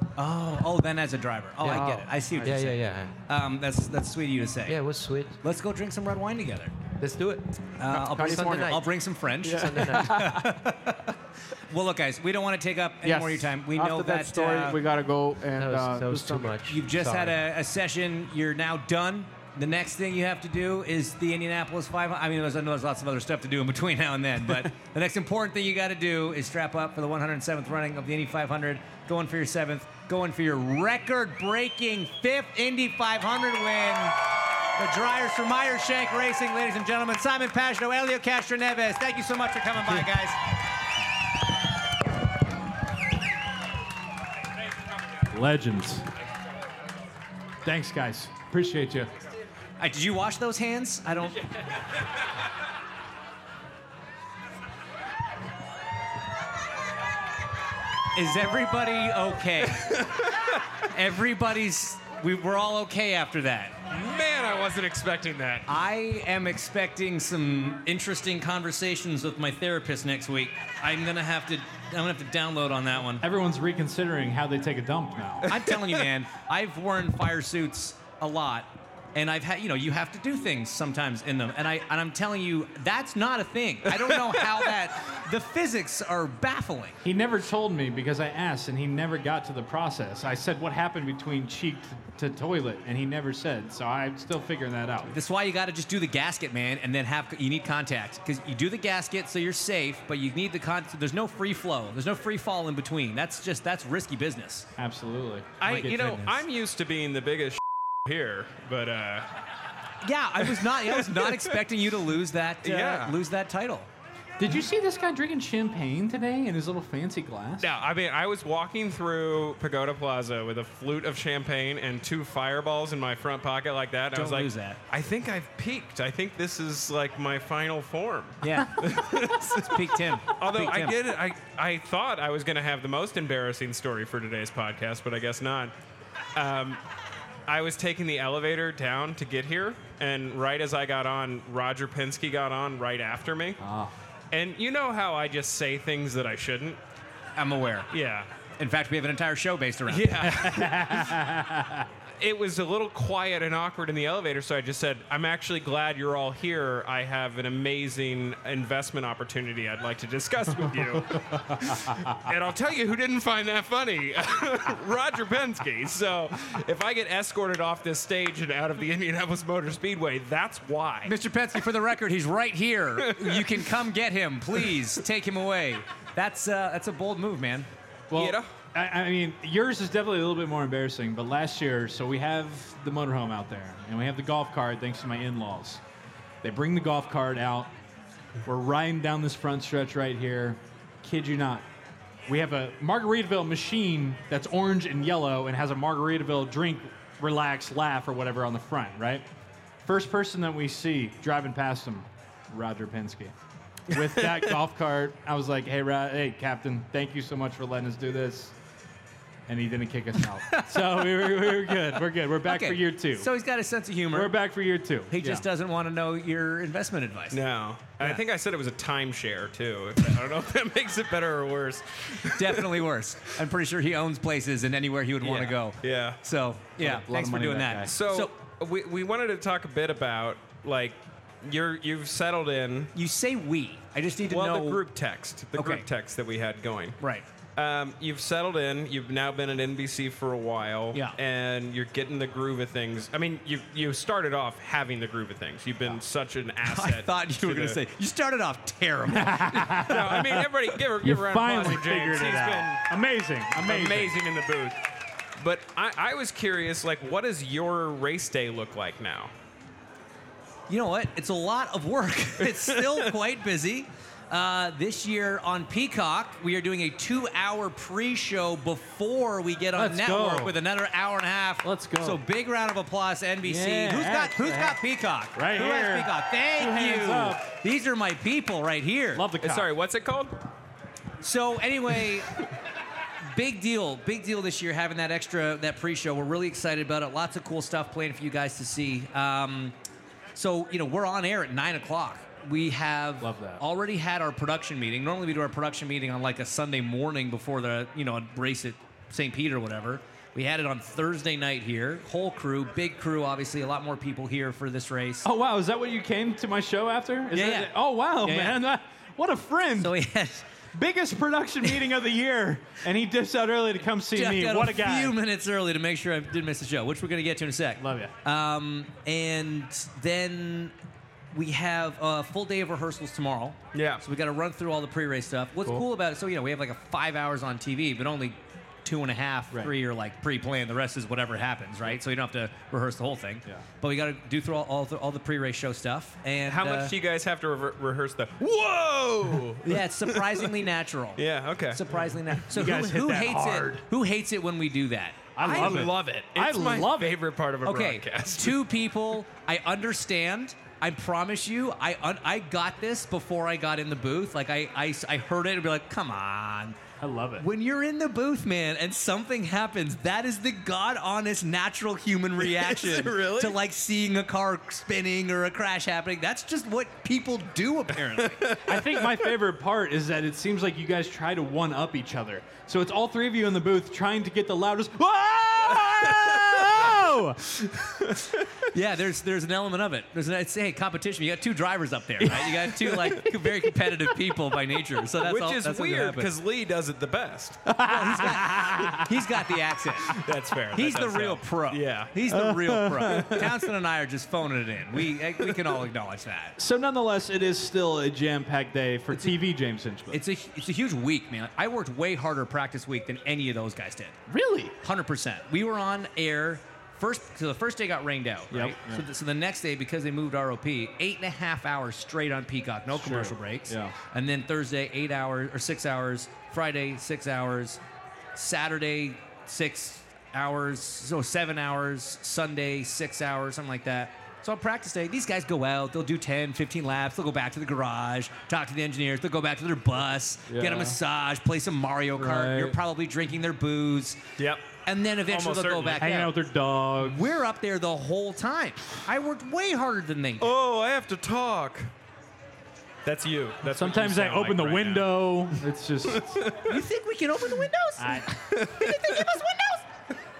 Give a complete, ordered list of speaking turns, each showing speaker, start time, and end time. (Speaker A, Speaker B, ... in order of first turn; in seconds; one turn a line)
Speaker A: 0.1-4.8
Speaker B: 1.6-1.9
Speaker C: 1.6-2.7
Speaker B: 2.4-3.1
Speaker B: 4.7-5.4
Speaker A: 5.4-6.7
Speaker B: 7.0-8.8
Speaker A: 7.8-14.8
Speaker C: 7.9-8.8
Speaker C: 9.4-10.5
Speaker B: 9.4-10.3
Speaker C: 13.0-16.6
Speaker B: 15.5-17.4
Speaker A: 16.6-34.2
Speaker A: 34.8-40.4
Speaker D: 45.3-46.1
Speaker D: 47.6-49.1
Speaker A: 49.8-51.5
Speaker A: 58.1-60.2
Speaker E: 59.8-60.6
Speaker A: 60.9-63.8
Speaker E: 63.9-65.7
Speaker A: 65.7-73.2
Speaker D: 73.2-75.5
Speaker A: 75.5-87.0
Speaker E: 84.2-84.6
Speaker D: 87.0-95.1
Speaker A: 95.1-104.7
Speaker D: 104.8-105.7
Speaker E: 105.6-109.3
Speaker A: 105.6-106.4
Speaker A: 110.0-113.9
Speaker E: 110.5-111.5
Speaker E: 112.6-113.2
Speaker D: 114.4-117.7
Speaker E: 117.6-135.7
Speaker A: 124.1-124.8
Speaker A: 128.4-128.8
Speaker A: 129.4-131.0
Speaker E: 136.3-136.8
Speaker E: 137.5-143.6
Speaker D: 143.6-143.9
Speaker E: 144.3-146.8
Speaker A: 147.4-147.9
Speaker E: 147.9-148.3
Speaker A: 148.6-150.4
Speaker E: 149.9-151.2
Speaker D: 150.3-151.9
Speaker E: 152.2-171.2
Speaker A: 171.0-177.7
Speaker E: 173.0-173.6
Speaker D: 178.1-185.8
Speaker E: 178.1-178.5
Speaker D: 186.4-187.7
Speaker D: 188.4-191.6
Speaker D: 192.3-199.2
Speaker D: 199.8-203.3
Speaker D: 203.9-208.5
Speaker A: 203.9-204.3
Speaker D: 209.5-213.3
Speaker A: 210.4-214.4
Speaker D: 214.1-215.4
Speaker A: 215.1-217.4
Speaker E: 217.3-222.9
Speaker A: 222.3-228.3
Speaker E: 225.2-226.2
Speaker D: 226.8-227.9
Speaker E: 227.8-232.9
Speaker A: 232.9-234.8
Speaker E: 234.3-237.0
Speaker A: 235.5-235.8
Speaker A: 237.0-237.2
Speaker E: 237.6-247.8
Speaker A: 246.6-249.9
Speaker D: 249.1-254.2
Speaker E: 249.8-252.8
Speaker E: 253.5-254.8
Speaker E: 255.4-259.3
Speaker A: 260.7-279.3
Speaker E: 262.4-263.1
Speaker D: 269.7-270.6
Speaker D: 271.6-272.2
Speaker D: 273.4-274.8
Speaker D: 275.3-277.4
Speaker D: 279.1-279.7
Speaker E: 279.4-280.3
Speaker A: 281.2-282.3
Speaker A: 283.3-289.7
Speaker A: 290.3-305.3
Speaker D: 293.2-293.6
Speaker D: 305.2-309.9
Speaker A: 307.3-308.6
Speaker A: 309.8-310.4
Speaker D: 310.7-315.2
Speaker A: 314.1-320.7
Speaker D: 317.8-318.1
Speaker A: 321.3-336.9
Speaker E: 323.7-324.0
Speaker E: 336.4-341.9
Speaker A: 339.6-345.8
Speaker D: 342.5-343.8
Speaker D: 345.4-347.2
Speaker E: 345.4-348.6
Speaker A: 347.6-356.8
Speaker D: 357.0-357.4
Speaker A: 357.4-368.5
Speaker E: 362.4-363.6
Speaker E: 368.2-369.3
Speaker D: 368.6-377.7
Speaker E: 375.8-376.8
Speaker E: 378.1-378.6
Speaker A: 378.6-386.3
Speaker E: 385.2-387.6
Speaker D: 387.6-389.2
Speaker A: 387.9-390.2
Speaker E: 390.1-392.2
Speaker A: 390.7-396.6
Speaker D: 392.3-393.6
Speaker D: 396.6-400.2
Speaker A: 399.1-399.4
Speaker A: 400.1-404.2
Speaker D: 404.3-404.7
Speaker A: 404.8-417.8
Speaker D: 408.5-409.0
Speaker D: 412.9-413.9
Speaker A: 418.3-434.2
Speaker D: 430.5-431.0
Speaker D: 432.1-432.8
Speaker E: 434.4-434.7
Speaker A: 434.9-436.4
Speaker E: 435.2-436.1
Speaker D: 436.0-437.3
Speaker A: 437.0-440.5
Speaker E: 440.4-441.9
Speaker E: 443.0-445.4
Speaker D: 443.6-446.4
Speaker E: 446.1-446.8
Speaker A: 446.6-449.9
Speaker D: 448.0-448.4
Speaker E: 448.6-449.2